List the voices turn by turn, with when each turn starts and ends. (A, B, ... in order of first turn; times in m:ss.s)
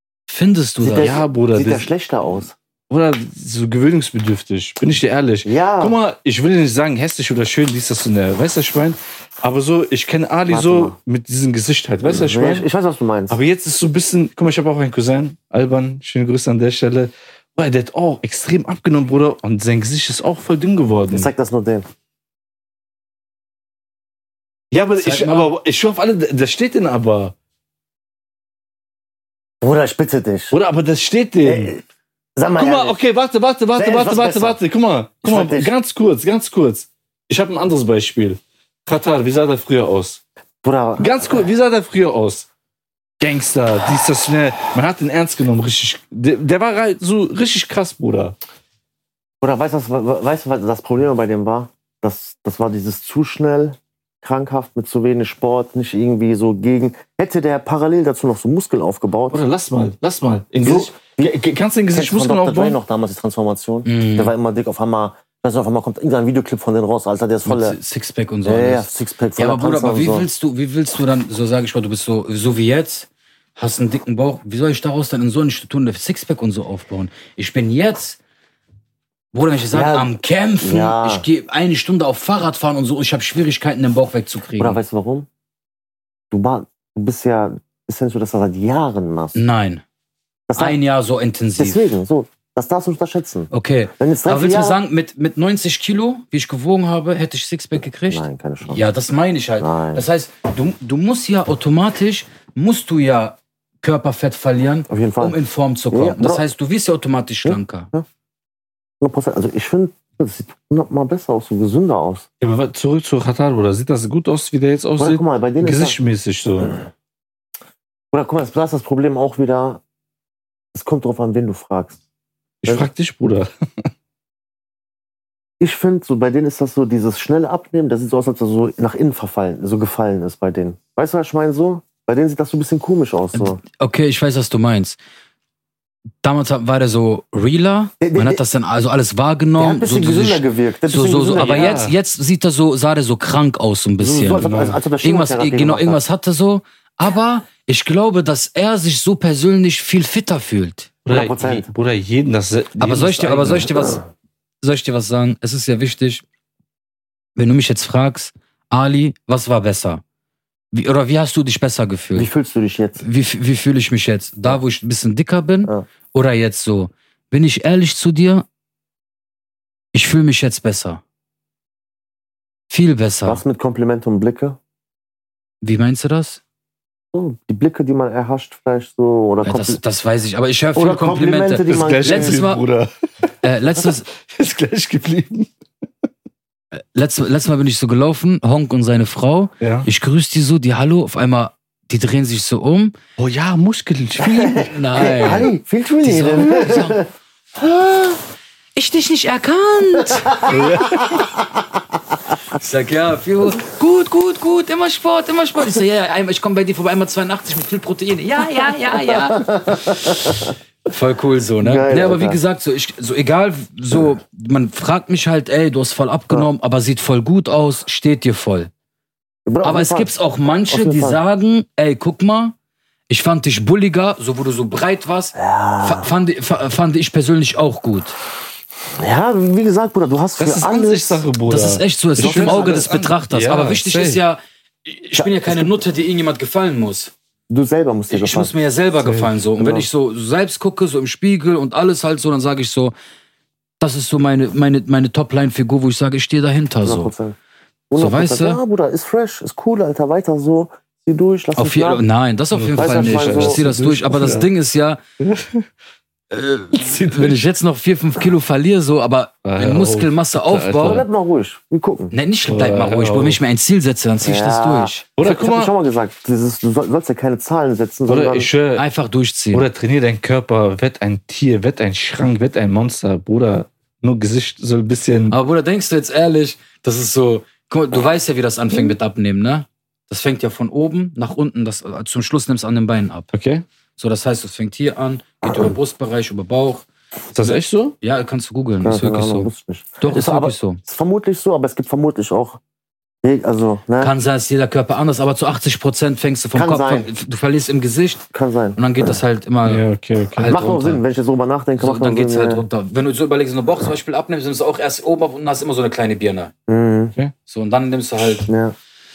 0:00.3-0:01.1 A
0:00.8-0:02.5 B
0:00.9-0:01.9 C
0:02.9-0:12.6 C
0:05.4-0:06.0 B
0:10.5-0:11.0 B
0:12.0-0:13.4 B
0:13.3-0:21.3 C
0:21.1-0:21.9 B
0:24.7-0:27.3 C
0:25.0-0:25.5 A
0:29.6-0:30.6 B
0:30.5-0:31.7 C
0:31.4-0:31.8 B
0:32.4-0:33.0 B
0:32.6-0:40.2 C
0:33.8-0:34.6 B
0:35.2-0:35.7 B
0:40.6-0:41.5 B
0:41.0-0:42.5 C
0:43.2-0:48.4 C
0:49.4-0:59.4 B
0:59.3-1:02.8 C
1:00.6-1:01.4 B
1:01.9-1:07.8 B
1:03.8-1:04.3 A
1:07.4-1:18.2 A
1:08.4-1:10.3 B
1:19.3-1:24.8 A
1:19.7-1:21.2 B
1:24.6-1:25.3 B
1:26.3-1:29.4 B
1:29.3-1:29.8 A
1:30.5-1:30.8 B
1:30.6-1:31.8 A
1:31.6-1:34.8 B
1:33.5-1:47.9 A
1:38.1-1:38.8 B
1:39.6-1:40.0 B
1:44.9-1:45.4 B
1:45.9-1:46.4 B
1:47.4-1:48.0 B
1:49.0-1:52.2 B
1:52.4-1:56.8 C
1:55.0-1:56.0 B
1:58.1-1:59.8 B
2:00.7-2:02.0 B
2:02.6-2:03.9 C
2:05.6-2:13.6 B
2:13.3-2:15.0 A
2:16.2-2:31.0 A
2:18.0-2:18.4 B
2:19.6-2:21.7 B
2:21.3-2:21.9 C
2:24.0-2:26.0 B
2:24.4-2:24.8 C
2:31.0-2:33.7 C
2:31.1-2:31.7 B
2:32.8-2:34.0 A
2:34.6-2:36.2 A
2:37.4-2:40.0 A
2:40.7-2:42.3 A
2:42.1-2:43.0 B
2:43.0-2:48.4 A
2:49.9-2:51.0 A
2:52.7-2:53.4 A
2:53.2-2:54.6 B
2:55.6-2:56.4 A
2:57.1-2:59.8 B
2:59.4-3:02.6 A
3:00.7-3:02.4 B
3:01.7-3:03.3 C
3:03.4-3:04.1 A
3:04.1-3:05.5 C
3:06.7-3:12.9 A
3:09.6-3:09.9 C
3:13.2-3:14.7 C
3:14.2-3:17.1 B
3:14.5-3:17.0 A
3:17.6-3:18.1 B
3:18.8-3:20.5 A
3:20.2-3:21.4 B
3:20.5-3:21.1 C
3:22.5-3:30.1 A
3:28.9-3:30.5 B
3:30.8-3:38.7 A
3:31.6-3:32.4 B
3:39.4-3:40.1 B
3:39.6-3:42.5 A
3:40.7-3:41.2 B
3:43.1-3:48.2 A
3:45.3-3:46.1 B
3:49.0-3:51.2 B
3:50.4-3:54.2 C
3:51.5-3:57.1 A
3:52.2-3:52.9 B
3:55.2-3:55.7 B
3:57.5-3:58.5 B
3:58.1-4:02.9 A
3:59.0-3:59.3 C
3:59.6-3:59.9 B
4:03.8-4:07.1 A
4:06.8-4:07.4 B
4:07.9-4:12.0 B
4:07.9-4:08.6 A
4:11.6-4:15.0 A
4:12.5-4:14.5 C
4:12.8-4:13.6 B
4:15.2-4:15.7 C
4:16.3-4:21.0 A
4:16.7-4:17.4 C
4:19.4-4:21.0 C
4:20.8-4:22.1 B
4:22.1-4:25.0 A
4:22.5-4:23.4 C
4:24.2-4:28.5 B
4:25.2-4:25.7 C
4:28.1-4:28.8 C
4:28.8-4:29.6 A
4:29.5-4:35.4 C
4:35.3-4:43.3 A
4:43.3-4:43.6 C
4:44.0-4:46.8 A
4:47.3-4:48.0 C
4:47.4-4:49.5 A
4:48.8-4:52.6 B
4:50.0-4:50.8 A
4:53.2-4:54.1 B
4:54.0-4:59.8 A
4:56.5-4:57.1 B
4:58.3-4:59.2 B
4:59.6-5:00.6 C
5:00.4-5:01.0 A
5:00.5-5:02.6 B
5:01.8-5:06.5 A
5:06.7-5:07.1 B
5:07.5-5:08.5 A
5:08.4-5:08.7 B